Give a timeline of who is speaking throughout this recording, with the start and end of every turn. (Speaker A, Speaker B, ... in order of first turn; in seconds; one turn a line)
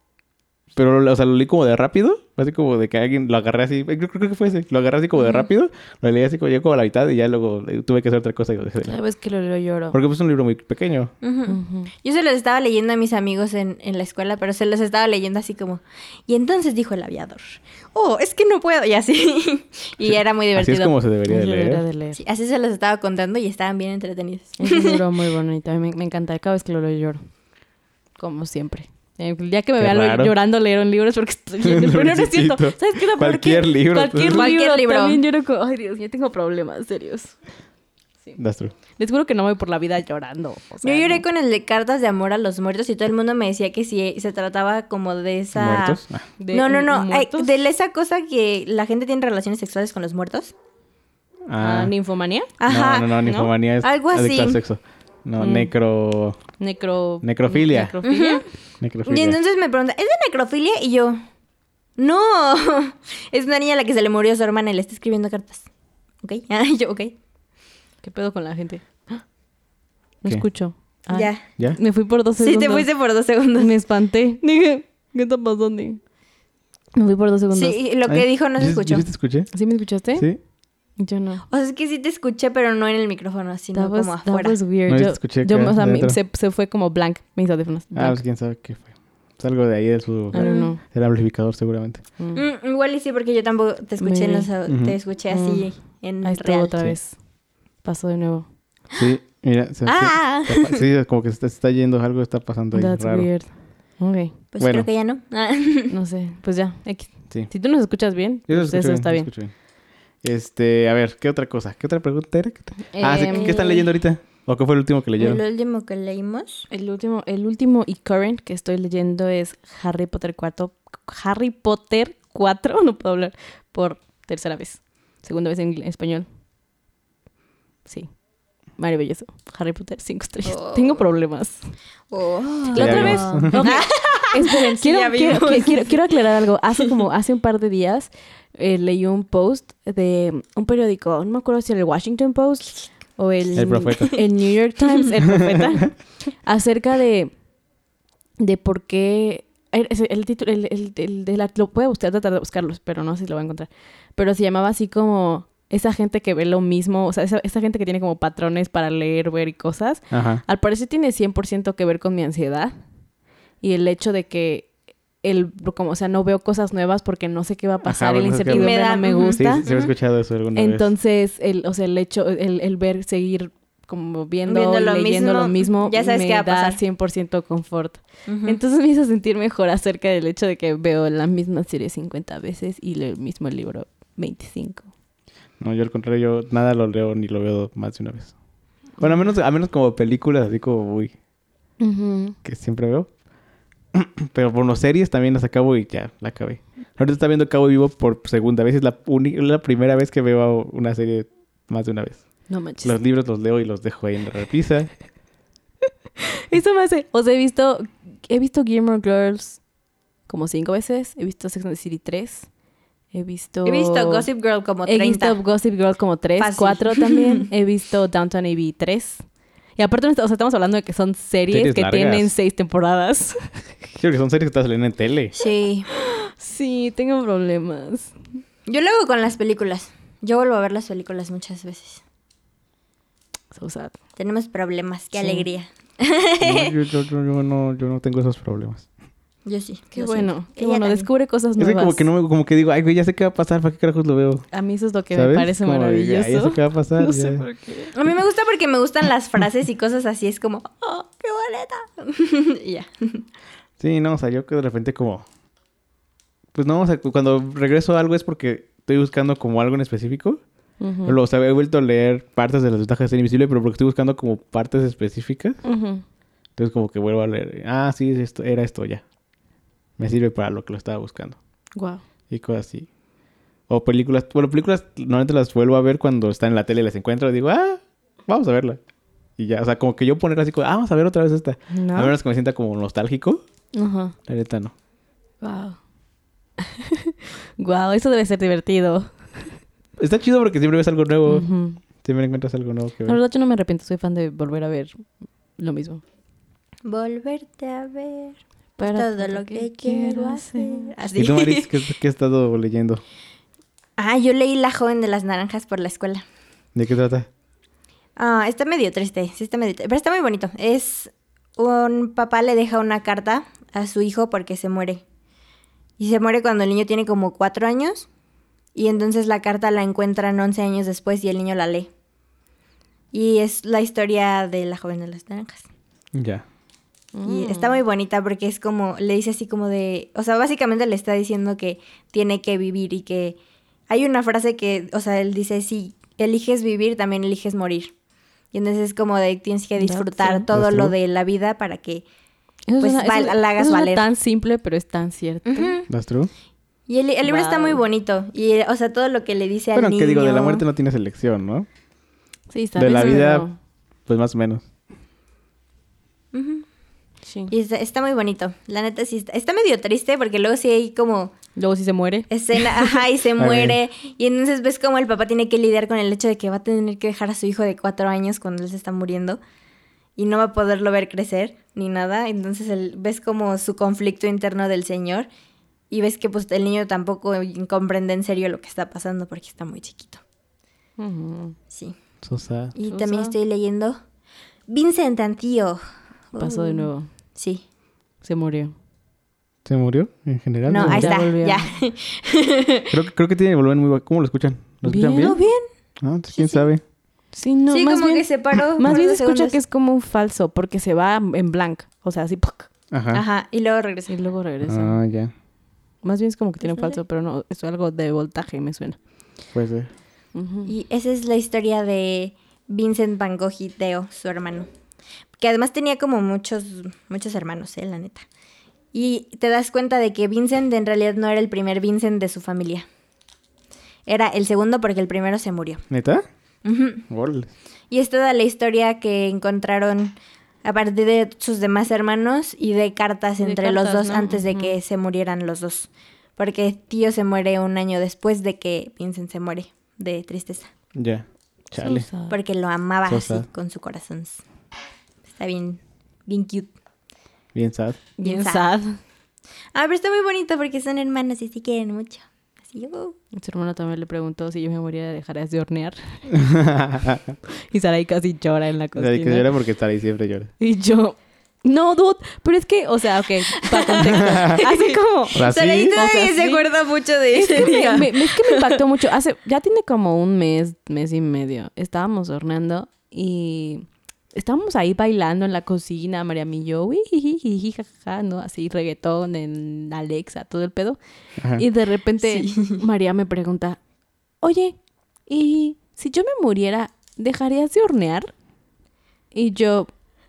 Speaker A: 0.7-9.0
Speaker B: 8.8-10.0
Speaker A: 9.9-11.1
Speaker C: 11.2-20.9
Speaker B: 11.5-11.9
Speaker A: 20.0-21.8
Speaker B: 21.3-22.2
Speaker C: 22.1-25.0
Speaker B: 24.6-27.2
Speaker B: 28.2-37.3
Speaker A: 29.8-30.3
Speaker A: 31.6-34.5
Speaker C: 34.2-35.2
Speaker A: 38.4-38.7
Speaker B: 39.0-41.2
Speaker C: 40.8-46.0
Speaker A: 45.5-46.2
Speaker B: 46.4-47.5
Speaker C: 46.5-50.5
Speaker A: 51.5-51.9
Speaker B: 51.6-52.5
Speaker C: 52.6-54.6
Speaker A: 52.7-56.4
Speaker B: 53.2-53.5
Speaker B: 55.4-55.7
Speaker B: 56.6-58.4
Speaker A: 57.2-57.9
Speaker C: 58.0-58.4
Speaker A: 58.8-59.4
Speaker C: 59.1-61.2
Speaker C: 62.0-65.7
Speaker C: 66.2-67.1
Speaker B: 68.0-69.2
Speaker B: 70.2-72.9
Speaker C: 71.1-71.4
Speaker C: 72.4-73.7
Speaker B: 73.5-76.0
Speaker B: 77.0-77.8
Speaker C: 77.5-79.1
Speaker A: 78.1-79.5
Speaker B: 79.5-80.3
Speaker B: 81.0-81.4
Speaker C: 81.5-84.6
Speaker B: 83.7-88.2
Speaker A: 84.9-86.2
Speaker A: 87.9-92.0
Speaker B: 90.3-90.8
Speaker C: 90.3-90.7
Speaker C: 92.3-96.7
Speaker B: 94.0-94.5
Speaker A: 94.7-94.9
Speaker B: 95.3-95.7
Speaker B: 96.2-97.1
Speaker B: 97.8-98.5
Speaker A: 99.0-103.3
Speaker C: 99.8-100.8
Speaker B: 102.7-104.3
Speaker C: 104.5-105.9
Speaker A: 104.6-104.9
Speaker B: 105.9-109.3
Speaker A: 108.5-109.5
Speaker A: 110.2-115.4
Speaker B: 112.9-113.6
Speaker C: 113.2-113.8
Speaker C: 115.2-116.7
Speaker B: 116.7-126.2
Speaker B: 128.8-131.6
Speaker C: 130.4-131.0
Speaker C: 132.1-136.3
Speaker B: 132.7-147.3
Speaker A: 132.7-133.7
Speaker A: 143.6-144.2
Speaker B: 148.4-162.7
Speaker A: 160.1-160.4
Speaker B: 163.6-164.7
Speaker B: 165.2-169.7
Speaker A: 167.8-168.8
Speaker C: 168.5-169.9
Speaker A: 169.3-170.9
Speaker B: 170.5-184.9
Speaker C: 174.5-176.8
Speaker C: 178.3-178.6
Speaker A: 185.6-188.3
Speaker A: 189.0-191.1
Speaker B: 191.8-192.3
Speaker A: 192.4-193.1
Speaker A: 193.9-202.2
Speaker B: 202.5-203.0
Speaker A: 202.8-204.9
Speaker B: 206.5-209.6
Speaker B: 210.3-212.5
Speaker B: 213.1-214.3
Speaker C: 213.7-215.4
Speaker B: 214.8-219.2
Speaker C: 216.4-217.5
Speaker B: 219.8-223.6
Speaker A: 221.5-222.3
Speaker A: 224.0-225.3
Speaker C: 225.3-225.9
Speaker B: 225.9-228.1
Speaker C: 228.7-232.0
Speaker B: 233.5-234.0
Speaker C: 234.2-236.8
Speaker B: 235.2-235.4
Speaker A: 236.4-238.8
Speaker C: 239.4-241.1
Speaker B: 239.9-242.0
Speaker A: 241.6-244.4
Speaker B: 244.5-247.9
Speaker A: 245.1-247.4
Speaker C: 247.9-253.2
Speaker A: 253.8-255.2
Speaker A: 256.5-260.4
Speaker B: 260.8-261.2
Speaker A: 261.1-265.6
Speaker B: 265.6-266.0
Speaker A: 266.6-269.0
Speaker A: 270.0-271.4
Speaker B: 271.8-272.0
Speaker A: 272.3-272.9
Speaker A: 273.7-278.8
Speaker A: 279.4-283.4
Speaker B: 281.7-282.1
Speaker B: 283.7-284.1
Speaker A: 284.3-284.7
Speaker B: 285.4-285.8
Speaker B: 286.6-289.5
Speaker A: 290.0-291.5
Speaker B: 291.2-291.8
Speaker A: 292.0-293.2
Speaker B: 293.0-295.0
Speaker B: 295.6-296.0
Speaker C: 296.8-301.7
Speaker B: 298.8-300.9
Speaker A: 301.1-303.0
Speaker C: 304.0-306.2
Speaker A: 306.7-307.3
Speaker C: 308.1-315.0
Speaker C: 316.0-318.1
Speaker C: 318.7-321.9
Speaker C: 323.1-325.6
Speaker A: 326.1-326.4
Speaker B: 327.1-327.8
Speaker C: 327.2-333.4
Speaker C: 333.9-337.9
Speaker C: 338.5-342.0
Speaker B: 339.8-340.4
Speaker A: 340.5-340.9
Speaker B: 342.7-345.7
Speaker C: 342.8-344.1
Speaker C: 345.5-345.9
Speaker A: 345.9-346.3
Speaker C: 346.9-350.6
Speaker B: 347.2-347.8
Speaker A: 349.7-351.7
Speaker B: 352.5-353.5
Speaker A: 352.8-353.5
Speaker A: 354.1-354.6
Speaker C: 356.3-356.6
Speaker C: 357.5-361.3
Speaker B: 361.6-362.3
Speaker C: 362.3-369.4
Speaker A: 363.4-363.8
Speaker C: 370.2-375.3
Speaker C: 375.9-380.2
Speaker B: 381.0-381.6
Speaker C: 381.7-381.9
Speaker A: 382.2-382.7
Speaker C: 382.7-384.0
Speaker B: 382.9-383.3
Speaker C: 384.7-385.8
Speaker C: 386.3-387.6
Speaker B: 386.4-387.1
Speaker B: 388.2-388.7
Speaker A: 389.6-391.1
Speaker C: 390.7-392.9
Speaker B: 390.7-391.6
Speaker A: 392.9-395.4
Speaker B: 394.9-395.4
Speaker C: 395.0-395.6
Speaker A: 396.0-396.8
Speaker C: 396.3-396.7
Speaker B: 397.3-402.7
Speaker C: 397.7-399.5
Speaker A: 402.9-403.2
Speaker C: 403.1-404.2
Speaker B: 404.1-405.0
Speaker A: 404.6-405.3
Speaker B: 406.0-409.0
Speaker C: 406.6-407.0
Speaker A: 409.5-409.9
Speaker B: 410.3-410.7
Speaker C: 410.6-414.7
Speaker C: 415.4-418.2
Speaker C: 418.9-422.9
Speaker C: 424.1-425.8
Speaker A: 425.9-426.2
Speaker C: 426.6-427.0
Speaker A: 427.1-427.5
Speaker C: 427.9-440.7
Speaker B: 433.4-434.7
Speaker A: 440.9-442.1
Speaker B: 441.8-442.4
Speaker C: 442.3-444.4
Speaker A: 443.1-443.5
Speaker C: 445.3-446.7
Speaker A: 447.5-448.0
Speaker B: 448.2-449.0
Speaker C: 448.2-448.7
Speaker C: 449.7-453.1
Speaker B: 453.4-456.3
Speaker A: 456.3-457.3
Speaker B: 457.7-459.5
Speaker A: 459.0-460.5
Speaker B: 460.6-466.7
Speaker C: 463.6-468.8
Speaker A: 464.2-464.6
Speaker A: 465.3-466.0
Speaker B: 467.3-481.0
Speaker A: 481.4-481.6
Speaker B: 481.5-483.8
Speaker C: 482.2-482.8
Speaker B: 484.4-484.8
Speaker B: 485.3-488.3
Speaker B: 489.3-489.9